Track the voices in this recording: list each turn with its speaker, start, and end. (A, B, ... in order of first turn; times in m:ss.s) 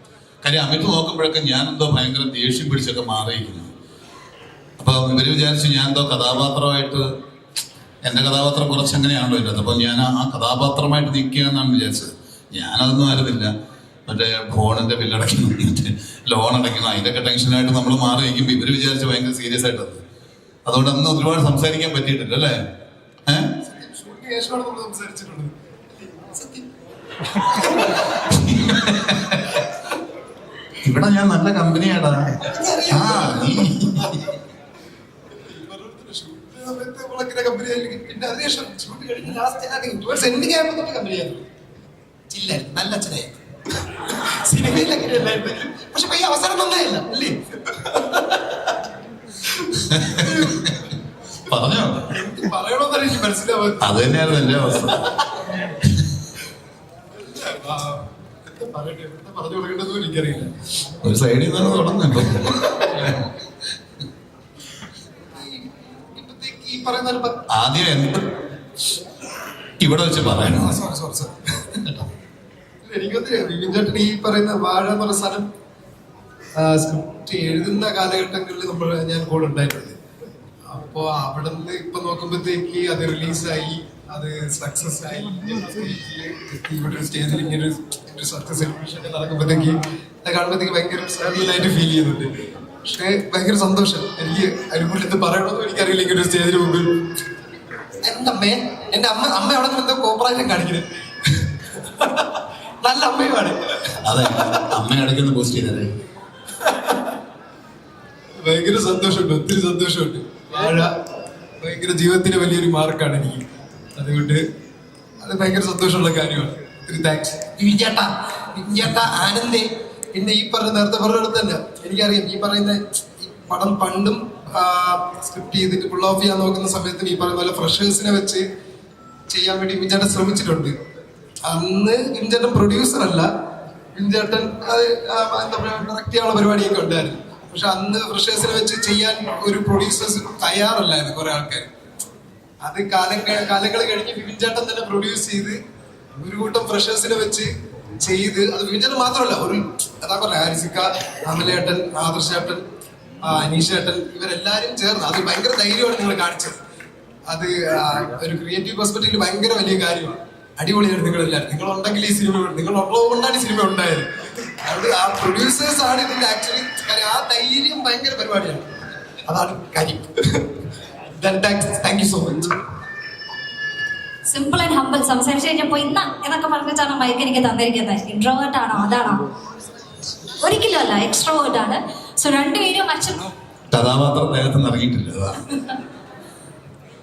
0:00.4-0:03.7 A
0:04.8-0:07.0 A
0:08.0-0:13.5 A
0:14.1-0:20.0 A
0:20.6-0:22.6 A
0:23.3-0:23.5 A
0:23.6-0:26.7 B
0:27.4-0:28.1 B
0:28.3-0:29.4 A
0:30.8-0:34.2 A
0:32.5-0:33.7 B
0:35.4-0:41.4 B
0:42.3-0:43.3 B
0:43.9-0:48.7 B
0:49.4-0:50.9 B
0:49.9-0:50.8 A
0:51.4-0:52.1 A
0:52.1-0:55.1 B
0:53.8-0:55.0 A
0:57.1-1:00.5 B
1:01.0-1:03.1 A
1:05.3-1:07.4 B
1:07.5-1:08.3 A
1:09.8-1:10.8 A
1:10.4-1:11.4 B
1:12.8-1:15.4 B
1:16.6-1:20.0 B
1:20.7-1:36.9 B
1:38.0-1:43.9 B
1:44.0-1:46.0 A
1:46.6-1:47.1 B
1:48.4-1:50.9 B
1:51.6-1:53.4 B
1:54.0-1:54.4 B
1:55.2-2:08.4 B
2:09.3-2:10.7 B
2:11.4-2:13.3 B
2:13.9-2:21.7 B
2:22.6-2:25.6 B
2:26.1-2:32.6 B
2:33.2-2:36.6 B
2:37.3-2:50.4 B
2:51.1-2:52.6 B
2:54.3-2:59.2 C
3:00.4-3:03.3 C
3:03.7-3:05.4 A